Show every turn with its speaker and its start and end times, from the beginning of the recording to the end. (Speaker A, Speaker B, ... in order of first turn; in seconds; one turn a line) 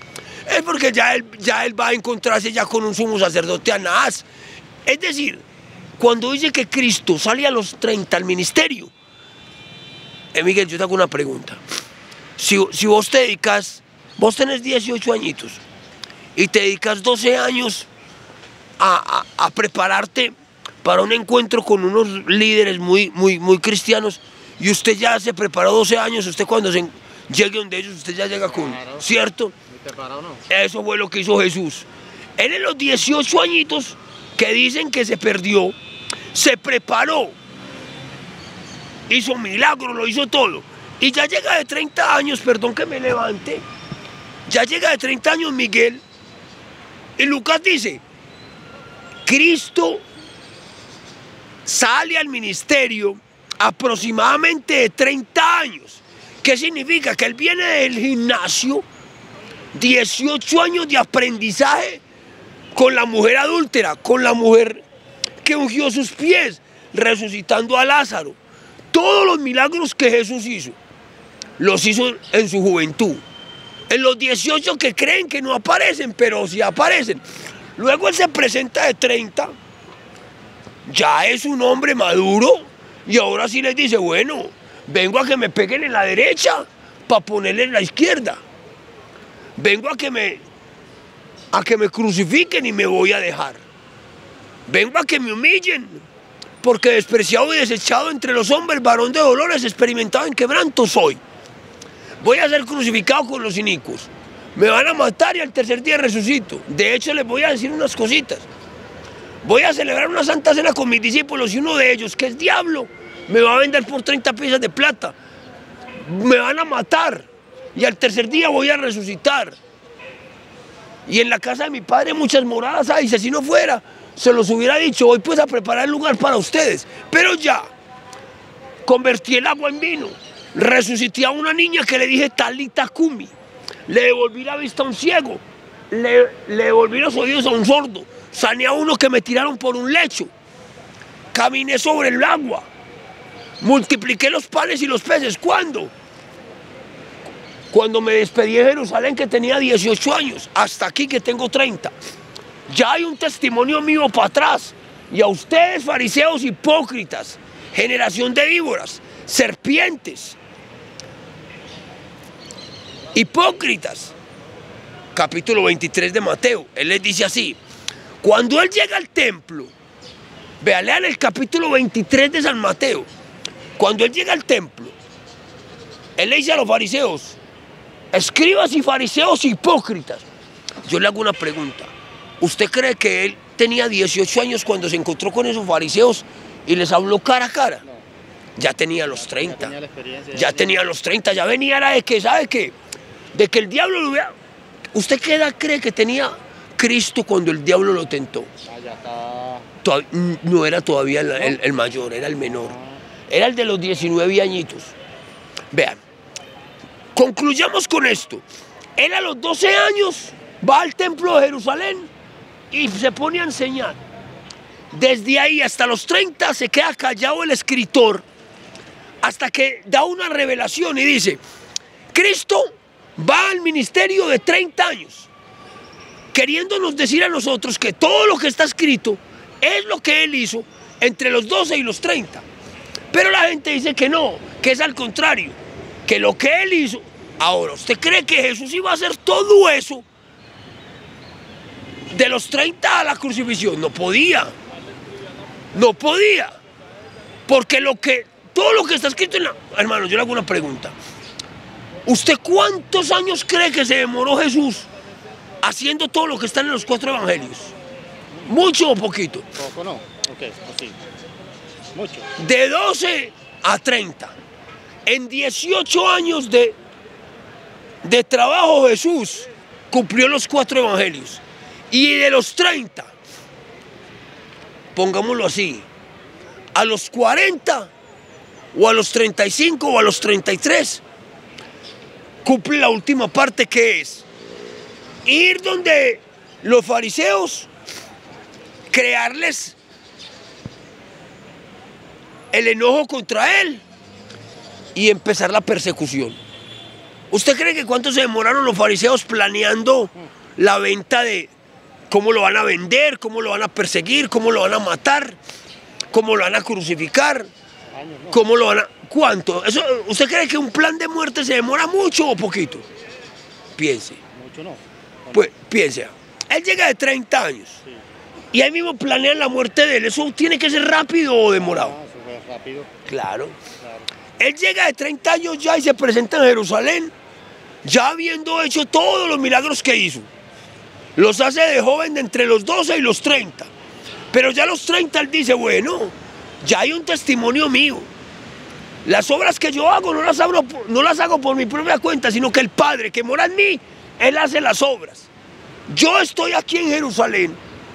Speaker A: 0.5-4.3
Speaker A: 4.8-5.4
Speaker A: 6.0-8.9
Speaker A: 10.3-11.6
Speaker A: 12.4-15.6
Speaker A: 16.4-17.9
Speaker A: 18.8-29.5
Speaker B: 28.5-29.0
Speaker B: 29.7-30.4
Speaker A: 30.5-35.7
Speaker A: 36.3-37.3
Speaker A: 39.1-43.6
Speaker A: 44.5-46.0
Speaker A: 47.2-48.0
Speaker A: 49.2-50.0
Speaker A: 51.6-58.8
Speaker A: 59.7-62.0
Speaker A: 62.7-64.8
Speaker A: 65.4-68.4
Speaker A: 68.9-70.8
Speaker A: 71.6-73.2
Speaker A: 73.9-77.2
Speaker A: 77.8-79.5
Speaker A: 80.8-88.4
Speaker A: 89.6-90.4
Speaker A: 91.5-93.6
Speaker A: 94.7-96.0
Speaker A: 96.6-101.2
Speaker A: 102.2-108.5
Speaker A: 109.4-115.1
Speaker A: 116.0-119.6
Speaker A: 121.0-127.7
Speaker A: 128.8-133.3
Speaker A: 133.9-140.3
Speaker A: 141.3-142.7
Speaker A: 143.6-145.9
Speaker A: 147.7-151.9
Speaker A: 152.7-160.4
Speaker A: 163.1-164.1
Speaker A: 165.1-167.6
Speaker A: 168.2-169.7
Speaker A: 170.6-173.1
Speaker A: 173.8-174.9
Speaker A: 176.2-177.4
Speaker A: 178.1-180.2
Speaker A: 180.8-187.8
Speaker A: 188.6-189.7
Speaker B: 189.1-190.8
Speaker A: 190.3-192.7
Speaker A: 193.3-194.3
Speaker A: 194.9-198.5
Speaker B: 198.7-199.7
Speaker A: 199.8-202.7
Speaker B: 202.6-203.0
Speaker A: 203.3-204.9
Speaker A: 205.7-206.0
Speaker A: 207.1-208.4
Speaker A: 208.9-212.1
Speaker A: 212.7-214.0
Speaker A: 214.9-218.2
Speaker A: 219.2-221.4
Speaker A: 222.1-225.3
Speaker A: 226.3-232.4
Speaker A: 233.1-240.0
Speaker A: 242.1-244.5
Speaker A: 245.7-246.6
Speaker A: 247.5-250.9
Speaker A: 252.1-254.9
Speaker A: 255.6-257.7
Speaker A: 258.4-259.5
Speaker B: 259.5-261.0
Speaker B: 261.9-262.3
Speaker A: 262.4-264.3
Speaker A: 265.1-266.8
Speaker A: 268.0-273.1
Speaker A: 274.9-275.9
Speaker A: 276.7-277.9
Speaker A: 278.7-281.0
Speaker A: 282.4-284.2
Speaker A: 285.2-287.7
Speaker A: 288.9-289.8
Speaker A: 292.5-293.8
Speaker A: 294.9-296.4
Speaker A: 297.3-301.5
Speaker A: 302.1-305.4
Speaker A: 306.1-307.5
Speaker B: 307.9-308.5
Speaker A: 308.3-312.8
Speaker A: 313.8-314.2
Speaker B: 314.3-315.5
Speaker A: 315.3-317.8
Speaker A: 318.5-321.9
Speaker B: 321.6-322.9
Speaker A: 323.1-323.6
Speaker B: 323.8-324.1
Speaker A: 324.4-327.1
Speaker A: 327.8-330.3
Speaker A: 331.1-333.7
Speaker A: 334.3-338.1
Speaker A: 339.0-345.3
Speaker A: 345.9-347.6